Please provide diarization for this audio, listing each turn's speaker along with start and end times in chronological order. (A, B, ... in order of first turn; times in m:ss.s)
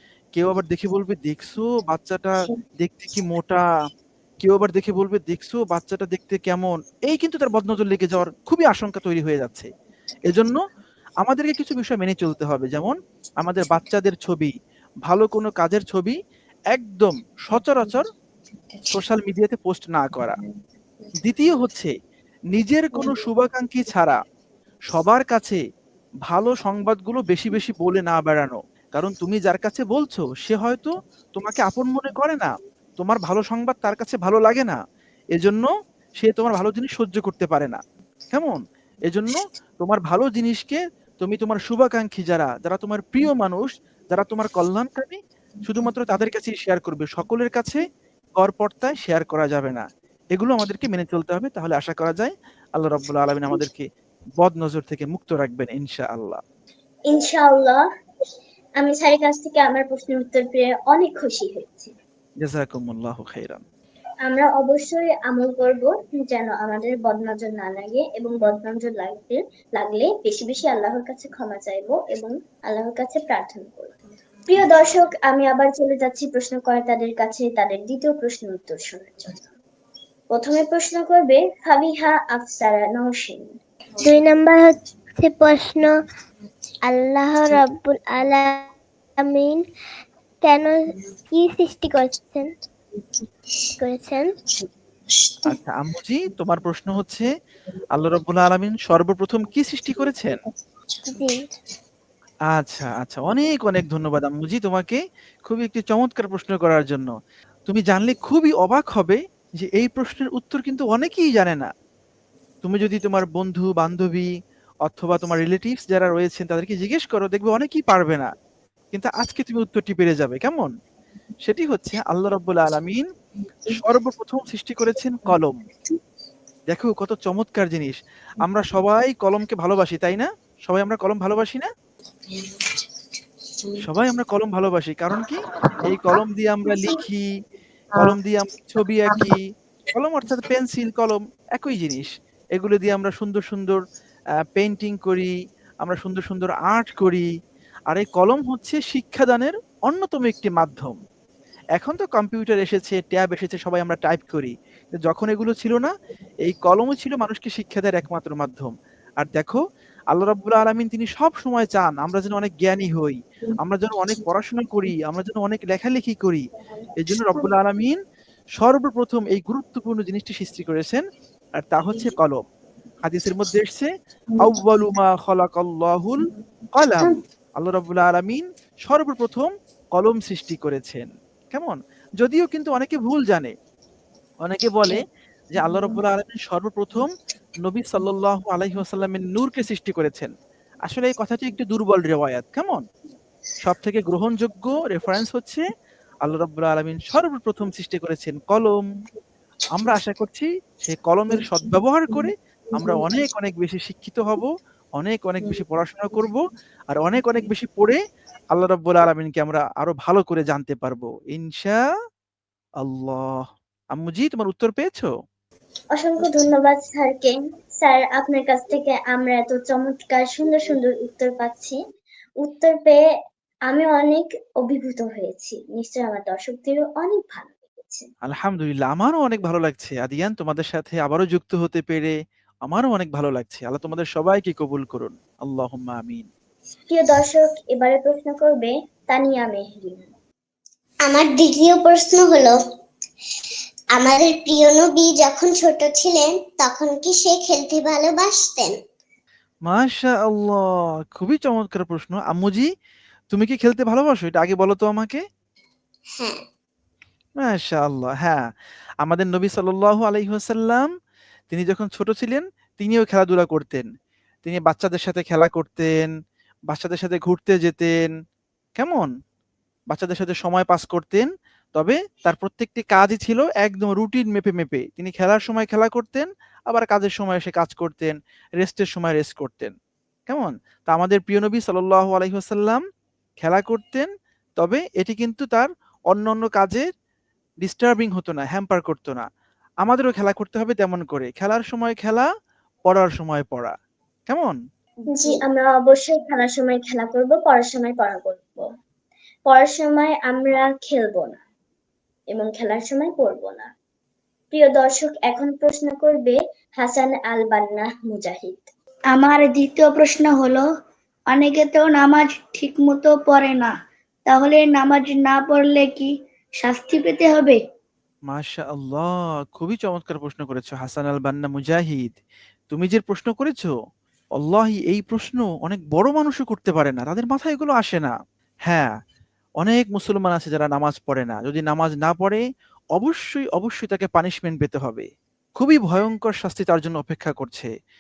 0:00.4-0:03.6 A
0:04.4-0:09.7 A
0:10.3-0:10.6 A
0:11.2-0:16.2 A
0:16.7-0:18.1 A
0:18.9-0:20.4 A
0:21.2-0:21.9 A
0:22.5-0:24.2 A
0:24.9-0:25.6 A
0:26.3-0:34.8 A
0:35.4-0:37.8 A
0:38.3-0:47.8 A
0:48.4-0:53.9 A
0:54.4-0:56.4 A
0:57.1-0:57.8 B
0:58.8-1:01.9 B
1:02.4-1:03.6 A
1:04.3-1:13.9 B
1:14.5-1:19.5 B
1:20.3-1:23.6 B
1:24.0-1:26.0 C
1:26.8-1:29.6 C
1:30.4-1:32.6 C
1:33.8-1:34.4 C
1:35.4-1:37.3 A
1:37.9-1:40.4 A
1:41.0-1:41.5 C
1:42.5-1:47.1 A
1:47.7-1:51.7 A
1:52.6-1:54.3 A
1:54.9-1:58.3 A
1:58.9-2:00.7 A
2:01.4-2:03.1 A
2:03.7-2:05.6 A
2:06.7-2:11.7 A
2:13.8-2:17.3 A
2:17.9-2:23.8 A
2:24.5-2:27.3 A
2:27.9-2:31.0 A
2:31.8-2:46.4 A
2:47.0-2:48.0 A
2:48.6-2:51.0 A
2:51.6-2:52.4 A
2:53.0-3:03.5 A
3:04.4-3:10.3 A
3:10.9-3:12.8 A
3:13.6-3:15.6 A
3:16.2-3:18.8 A
3:19.7-3:28.0 A
3:28.5-3:31.8 A
3:32.8-3:33.4 A
3:33.9-3:35.1 A
3:36.0-3:41.8 B
3:42.4-3:43.0 B
3:43.7-3:48.1 B
3:48.2-3:56.3 A
3:56.9-4:00.1 B
4:01.0-4:02.6 D
4:04.0-4:08.7 D
4:09.7-4:10.6 A
4:11.1-4:12.7 A
4:13.3-4:15.2 A
4:16.2-4:16.4 D
4:17.4-4:18.4 A
4:19.0-4:20.9 A
4:21.5-4:23.9 A
4:24.4-4:26.1 A
4:26.7-4:28.1 A
4:28.8-4:29.1 A
4:29.9-4:39.7 A
4:40.3-4:42.8 A
4:43.4-4:46.9 A
4:47.6-4:49.2 A
4:49.8-4:52.3 A
4:52.9-4:53.8 A
4:54.3-4:54.6 A
4:55.1-4:58.6 B
4:59.5-5:01.4 B
5:02.3-5:03.7 B
5:04.5-5:08.7 B
5:09.1-5:10.6 E
5:11.3-5:13.7 E
5:14.3-5:16.1 E
5:16.6-5:17.6 E
5:18.3-5:22.2 A
5:22.7-5:23.7 A
5:24.4-5:28.1 A
5:29.6-5:32.4 A
5:33.0-5:37.7 A